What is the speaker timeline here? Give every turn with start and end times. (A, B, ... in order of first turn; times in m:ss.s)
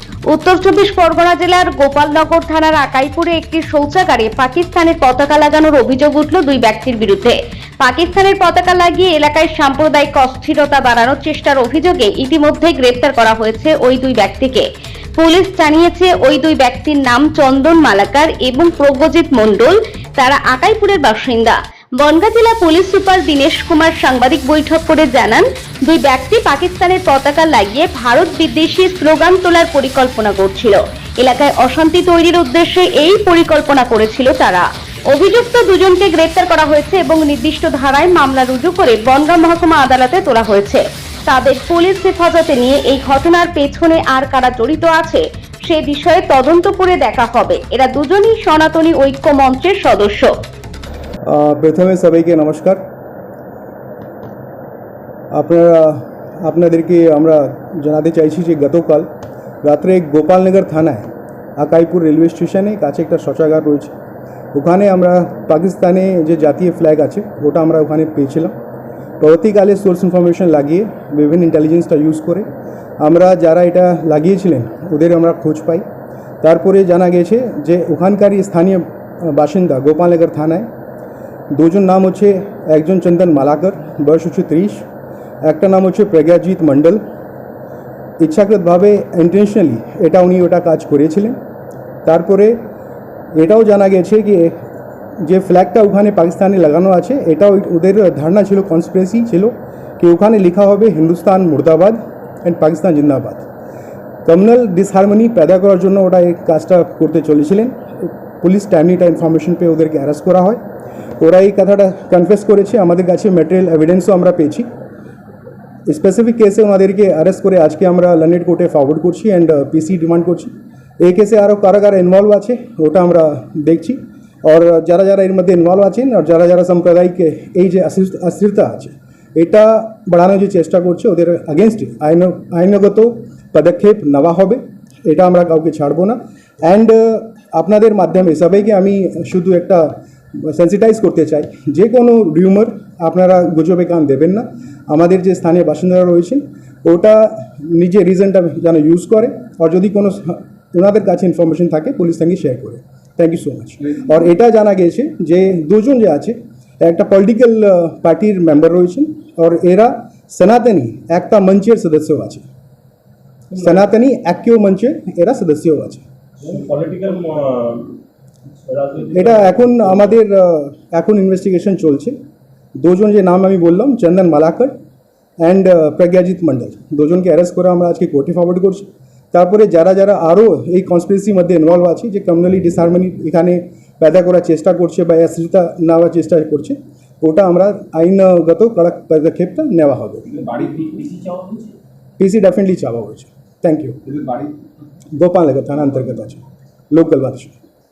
0:00.3-0:50.3 A
0:51.2-0:52.8 B
0:55.3-0:59.1 B
0:59.6-1:03.9 B
1:04.5-1:08.5 B
1:09.2-1:15.8 B
1:16.4-1:20.7 B
1:21.5-1:24.9 B
1:25.4-1:27.0 B
1:28.2-1:31.4 B
1:32.0-1:32.6 B
1:33.3-1:34.6 B
1:35.2-1:43.4 B
1:44.2-1:50.6 B
1:51.2-1:54.7 B
1:55.9-2:42.4 B
2:43.6-2:46.0 B
2:46.4-2:48.0 C
2:48.6-2:50.1 C
2:49.1-2:52.2 B
2:52.8-2:54.8 B
2:55.4-3:10.4 B
3:10.4-3:11.6 C
3:12.2-3:14.1 B
3:14.2-3:14.5 C
3:15.2-3:17.6 B